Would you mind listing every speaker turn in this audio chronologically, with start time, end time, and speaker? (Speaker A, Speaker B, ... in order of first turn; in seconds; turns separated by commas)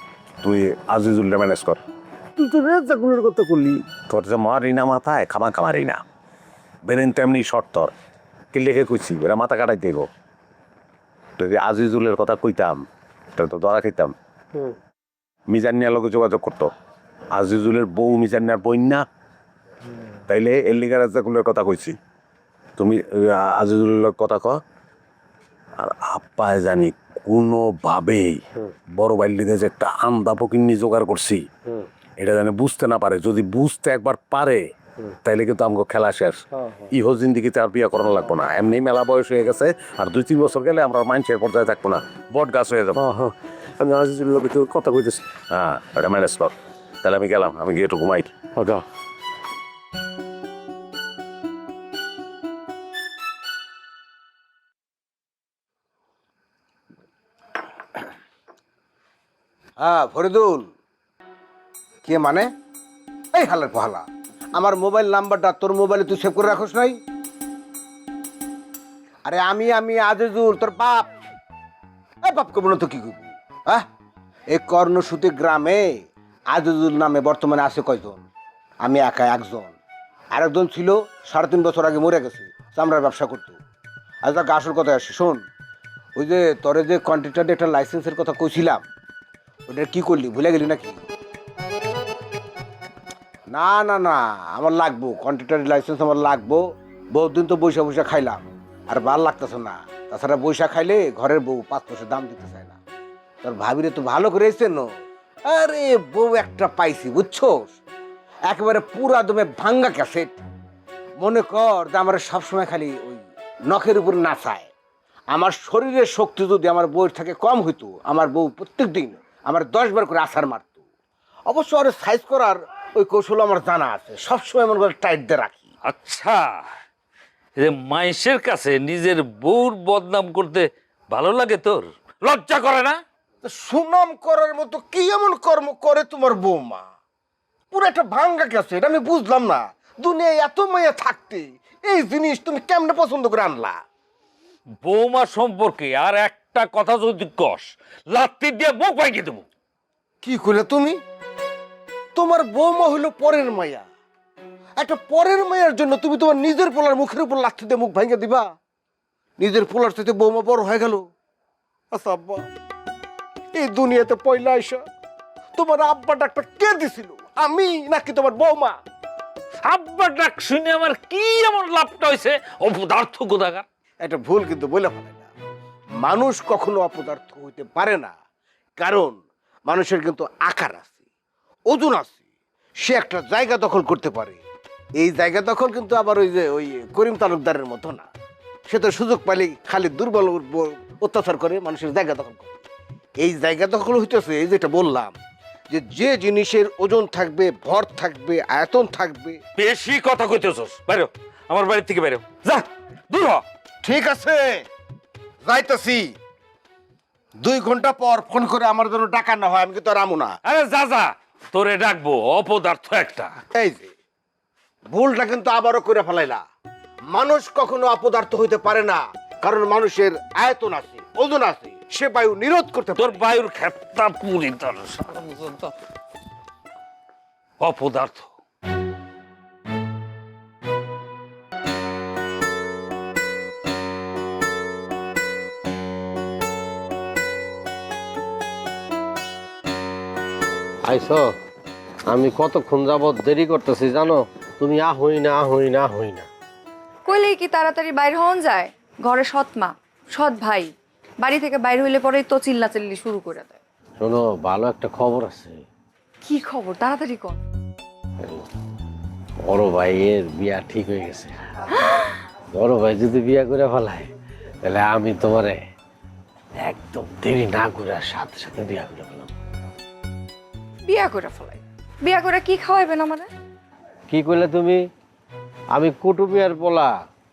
Speaker A: 0.4-1.8, Speaker A: 2.4-6.0, Speaker A: 6.9-7.9, Speaker A: 8.5-10.1, Speaker A: 11.4-12.8, Speaker A: 13.4-14.1, Speaker A: 15.5-16.7, Speaker A: 17.4-19.0, Speaker A: 20.3-21.9, Speaker A: 22.8-24.6, Speaker A: 25.8-28.4, Speaker A: 29.0-31.5, Speaker A: 32.2-34.6, Speaker A: 35.2-36.4, Speaker B: 36.5-36.9, Speaker A: 36.9-48.8, Speaker C: 59.8-60.7, Speaker C: 62.0-62.5, Speaker C: 63.4-64.0, Speaker C: 64.6-67.0, Speaker C: 69.2-71.1, Speaker C: 72.2-73.8, Speaker C: 74.5-76.0, Speaker C: 76.5-78.2, Speaker C: 78.8-79.8, Speaker C: 80.3-83.6, Speaker C: 84.2-85.4, Speaker C: 86.2-88.8, Speaker C: 89.7-91.0, Speaker C: 93.5-96.6, Speaker C: 97.1-102.8, Speaker C: 103.4-104.9, Speaker C: 105.5-107.8, Speaker C: 108.5-110.4, Speaker C: 111.2-114.7, Speaker C: 115.3-120.7, Speaker C: 121.5-125.6, Speaker D: 125.9-126.6, Speaker D: 127.6-133.0, Speaker C: 133.4-136.8, Speaker C: 137.7-143.8, Speaker D: 144.8-149.4, Speaker C: 150.2-151.0, Speaker C: 152.2-153.8, Speaker C: 154.8-158.4, Speaker C: 159.4-161.0, Speaker C: 161.9-162.4, Speaker C: 163.5-164.8, Speaker C: 165.6-168.8, Speaker D: 169.6-173.7, Speaker C: 174.0-175.3, Speaker C: 176.0-178.1, Speaker C: 178.8-180.9, Speaker C: 181.7-182.2, Speaker C: 182.8-184.4, Speaker C: 185.0-188.1, Speaker C: 188.7-192.5, Speaker C: 193.2-195.2, Speaker C: 195.7-199.4, Speaker D: 199.6-203.4, Speaker C: 203.8-204.6, Speaker C: 205.4-206.1, Speaker C: 207.4-210.4, Speaker D: 210.5-213.3, Speaker C: 213.5-213.9, Speaker C: 214.9-216.4, Speaker C: 217.1-223.3, Speaker D: 223.0-225.7, Speaker D: 227.6-228.3, Speaker B: 240.9-241.3, Speaker B: 242.1-246.3, Speaker E: 247.1-250.7, Speaker E: 251.2-253.6, Speaker B: 254.0-255.6, Speaker E: 256.2-257.4, Speaker B: 259.4-261.4, Speaker B: 262.5-264.1, Speaker B: 264.6-265.6, Speaker B: 266.6-269.3, Speaker E: 270.9-273.3, Speaker B: 274.1-274.8, Speaker B: 275.7-277.0